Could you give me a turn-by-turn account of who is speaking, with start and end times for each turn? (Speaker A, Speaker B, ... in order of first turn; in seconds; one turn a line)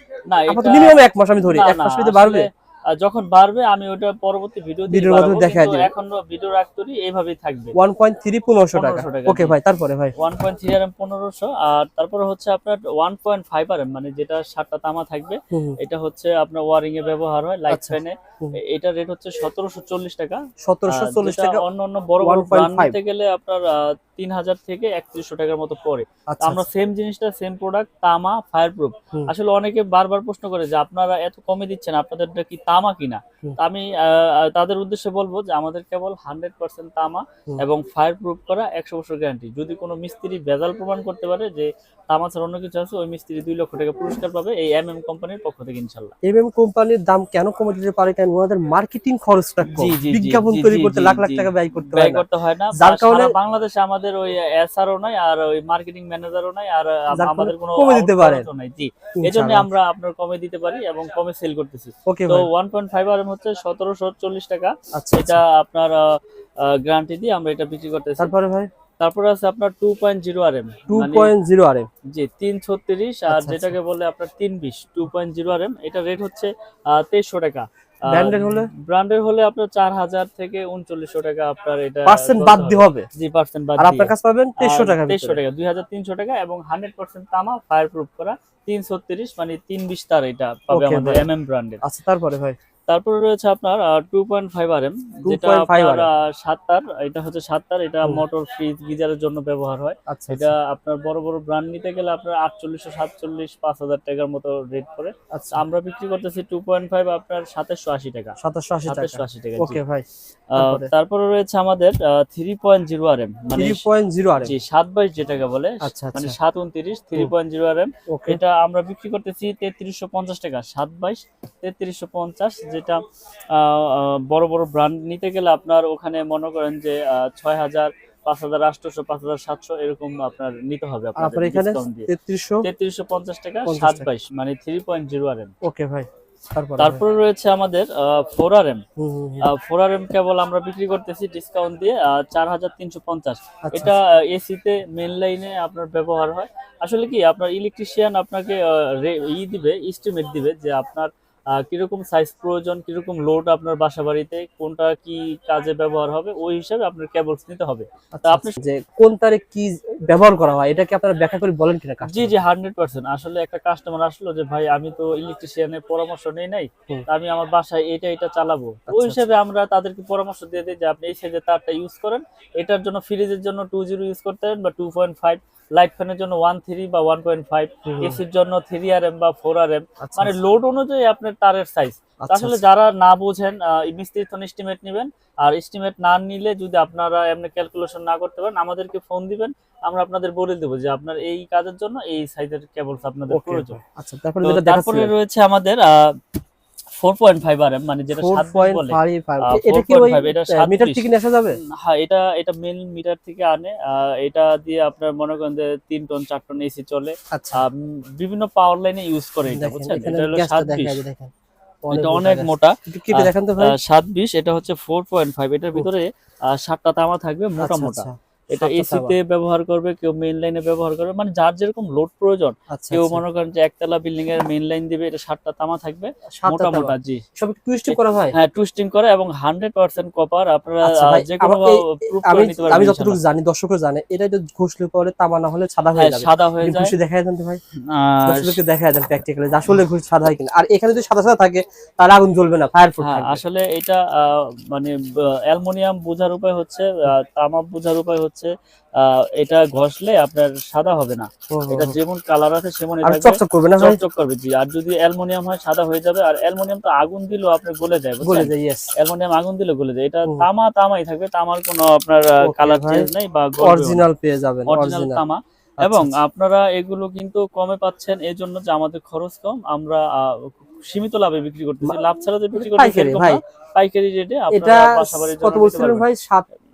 Speaker A: 0.3-7.8
Speaker B: 0.5-2.5
Speaker B: 4.9-5.9
Speaker B: 7.8-10.1
Speaker A: 8.7-9.6
Speaker A: 10.2-46.1
Speaker B: 15.5-15.8
Speaker B: 17.7-18.6
Speaker B: 20.6-21.6
Speaker B: 22.2-23.0
Speaker B: 26.3-26.6
Speaker B: 46.2-53.4
Speaker A: 49.6-68.3
Speaker B: 57.1-58.5
Speaker B: 59.2-59.7
Speaker B: 62.1-62.5
Speaker B: 65.0-65.4
Speaker B: 68.2-68.7
Speaker A: 69.0-71.3
Speaker B: 70.9-71.9
Speaker A: 72.1-91.8
Speaker B: 73.3-73.8
Speaker B: 78.1-78.7
Speaker B: 82.1-83.1
Speaker B: 83.8-85.4
Speaker B: 90.7-91.3
Speaker B: 91.8-92.6
Speaker A: 92.9-108.4
Speaker B: 95.2-96.1
Speaker B: 100.1-100.5
Speaker B: 105.3-105.7
Speaker B: 108.4-110.9
Speaker A: 108.9-109.8
Speaker A: 110.5-113.8
Speaker B: 113.6-114.5
Speaker A: 114.4-123.0
Speaker B: 115.8-116.4
Speaker B: 118.1-118.4
Speaker A: 123.5-132.1
Speaker B: 131.2-132.7
Speaker A: 132.6-135.5
Speaker B: 133.7-134.1
Speaker B: 135.6-137.0
Speaker A: 136.8-138.8
Speaker B: 139.0-139.5
Speaker A: 139.4-158.6
Speaker B: 143.7-143.9
Speaker B: 158.2-162.3
Speaker A: 162.1-193.8
Speaker B: 168.9-169.2
Speaker B: 177.8-178.2
Speaker B: 180.0-180.4
Speaker B: 182.2-182.6
Speaker B: 193.3-195.1
Speaker A: 194.4-196.2
Speaker A: 197.0-201.1
Speaker B: 198.2-201.6
Speaker A: 201.6-211.0
Speaker B: 207.3-207.6
Speaker B: 209.5-211.3
Speaker B: 211.9-213.8
Speaker A: 211.9-227.2
Speaker B: 217.6-219.2
Speaker B: 222.7-223.2
Speaker B: 226.4-228.3
Speaker A: 227.9-233.2
Speaker B: 230.9-237.6
Speaker A: 236.0-236.9
Speaker A: 237.9-238.6
Speaker B: 238.3-243.4
Speaker A: 243.0-264.0
Speaker B: 251.5-252.0
Speaker B: 253.0-254.0
Speaker B: 258.2-258.9
Speaker B: 262.4-263.1
Speaker B: 263.6-265.2
Speaker A: 264.7-276.1
Speaker B: 265.8-266.1
Speaker B: 272.6-273.4
Speaker B: 274.5-276.5